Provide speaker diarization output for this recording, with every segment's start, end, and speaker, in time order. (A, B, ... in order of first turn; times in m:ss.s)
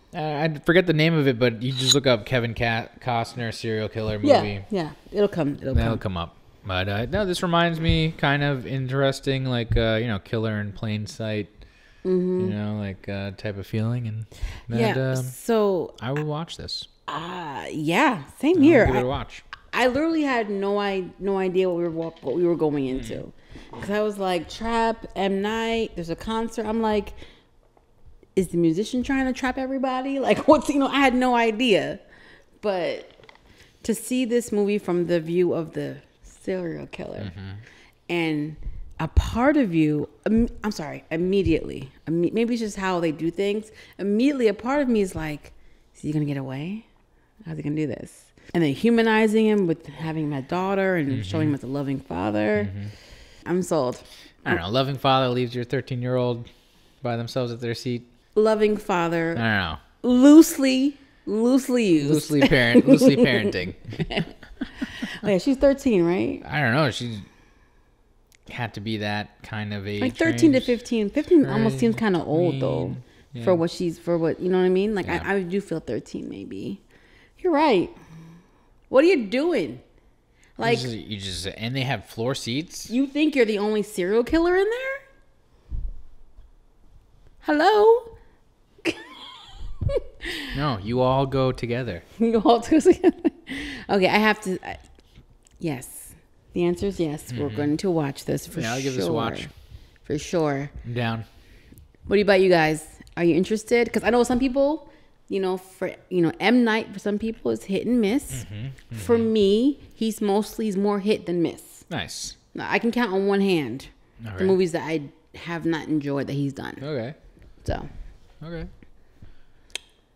0:00.1-0:04.7 A
0:04.2-0:06.0 B
0:05.7-0:11.6 A
0:12.0-0:12.6 B
0:12.4-0:16.9 A
0:14.7-0:16.0 B
0:17.1-0:19.1 B
0:18.6-0:19.4 A
0:19.6-0:27.2 B
0:22.9-0:23.2 A
0:28.4-0:32.0 B
0:32.6-0:33.2 B
0:33.8-0:37.4 B
0:37.2-0:37.6 A
0:38.1-0:46.8 B
0:47.5-0:52.8 B
0:51.1-0:51.6 A
0:52.6-0:52.9 A
0:53.4-0:54.6 B
0:54.4-0:56.5 A
0:57.0-0:58.1 A
0:58.4-0:59.4 B
0:59.4-0:59.8 A
1:00.0-1:06.4 B
1:02.0-1:04.2 A
1:06.4-1:07.3 A
1:08.5-1:10.8 A
1:10.0-1:16.8 B
1:11.4-1:13.6 A
1:15.0-1:15.3 A
1:17.4-1:18.0 B
1:18.9-1:19.8 B
1:20.6-1:20.9 B
1:20.6-1:22.9 A
1:22.9-1:25.0 B
1:27.4-1:28.1 B
1:28.8-1:29.3 B
1:30.0-1:30.5 B
1:30.5-1:32.0 A
1:32.2-1:34.8 B
1:35.6-1:39.5 B
1:37.3-1:37.8 A
1:38.5-1:39.5 A
1:40.0-1:40.7 B
1:40.8-1:41.3 A
1:42.1-1:51.9 B
1:48.3-1:49.3 A
1:51.9-1:52.4 A
1:52.5-1:56.9 B
1:54.2-1:54.6 A
1:56.8-1:57.2 A
1:57.6-1:57.9 B
1:58.4-1:58.7 A